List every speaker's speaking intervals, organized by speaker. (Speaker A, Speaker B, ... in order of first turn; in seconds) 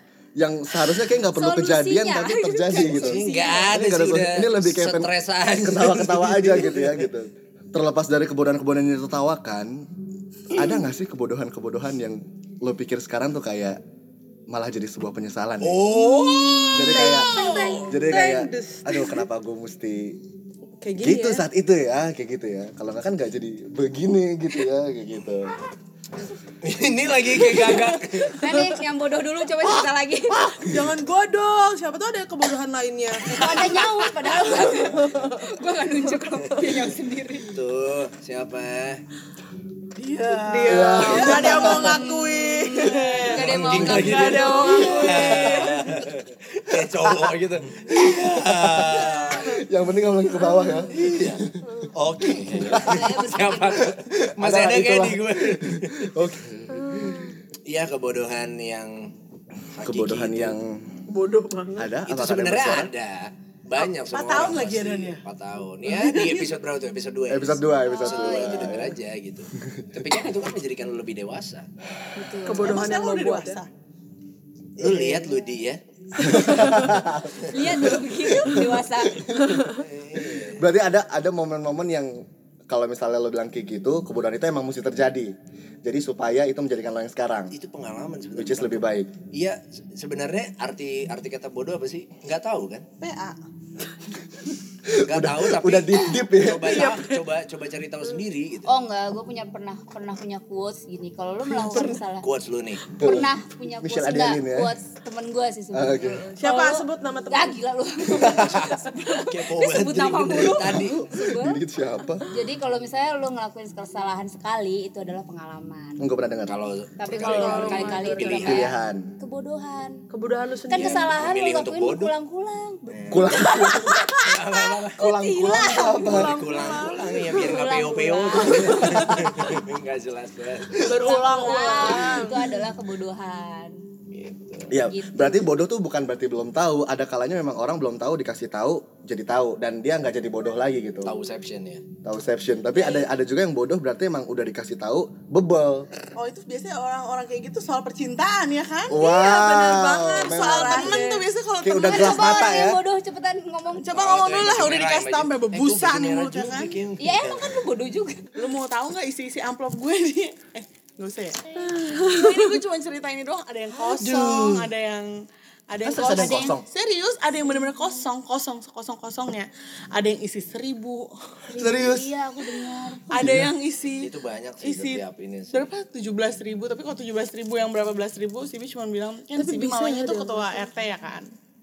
Speaker A: 0.4-9.8, 10.5-13.8, 14.5-15.9, 16.7-20.2, 21.0-25.5, 40.6-42.0, 43.5-44.3, 45.2-45.6, 46.9-47.3, 47.9-51.5, 52.4-53.2, 54.0-57.3, 59.8-61.0, 61.8-62.9, 67.3-68.9, 69.6-69.9, 76.2-79.7, 80.5-82.1, 82.7-85.3, 85.8-87.5, 88.3-89.1, 94.8-96.9, 103.0-103.3, 103.8-104.7, 105.7-106.2, 108.1-108.7, 110.3-112.2, 116.0-116.5, 118.2-119.1, 123.1-124.1, 125.0-126.4, 134.7-141.1, 142.0-145.9, 148.9-151.0, 151.6-152.8, 163.8-164.7, 165.8-166.6, 171.6-172.1, 173.1-173.5
Speaker B: 1.3-3.7, 17.0-18.0, 28.3-30.7, 33.2-37.5, 41.3-45.6, 52.7-53.9, 67.8-68.8, 72.2-73.0, 76.3-76.8, 77.4-79.3, 98.7-102.2, 103.0-111.6, 112.3-116.0, 117.0-120.0, 120.7-126.2, 127.3-129.2, 130.8-133.8, 134.9-135.5, 142.7-143.1, 151.8-153.9, 157.0-158.3, 166.2-166.5, 167.5-168.1, 171.5-173.0
Speaker C: 2.7-7.1, 15.6-17.1, 26.6-28.4, 37.4-39.0, 43.4-49.6, 50.9-51.4, 51.9-56.1, 57.7-59.1, 59.7-60.6, 62.0-71.7, 74.8-75.8, 79.6-80.7, 87.5-92.8, 95.0-98.7, 102.2-102.8, 108.3-111.0, 116.5-118.7, 120.8-122.1, 122.9-125.1, 126.0-130.8, 134.1-134.7, 141.0-141.8, 153.9-157.6, 174.0-175.7
Speaker D: 15.9-19.2, 20.8-21.4, 27.5-28.8, 30.5-35.5, 36.5-36.9, 40.5-42.0, 42.8-46.0, 50.4-50.9, 56.8-57.3, 61.1-61.9, 72.4-73.6, 76.6-77.0, 79.5-79.8, 96.7-97.1, 101.5-102.0, 106.4-107.6, 117.1-118.5, 120.1-121.2, 125.8-127.8, 128.3-129.5, 130.8-132.4, 149.0-151.3, 161.6-162.6, 179.3-180.6
Speaker E: 40.0-45.2, 63.8-65.2, 65.9-66.5, 72.5-73.7, 74.8-75.3, 93.0-93.4, 130.9-132.1, 146.1-149.2, 149.9-152.3, 153.8-156.8, 158.3-171.1, 173.1-174.1, 174.6-181.3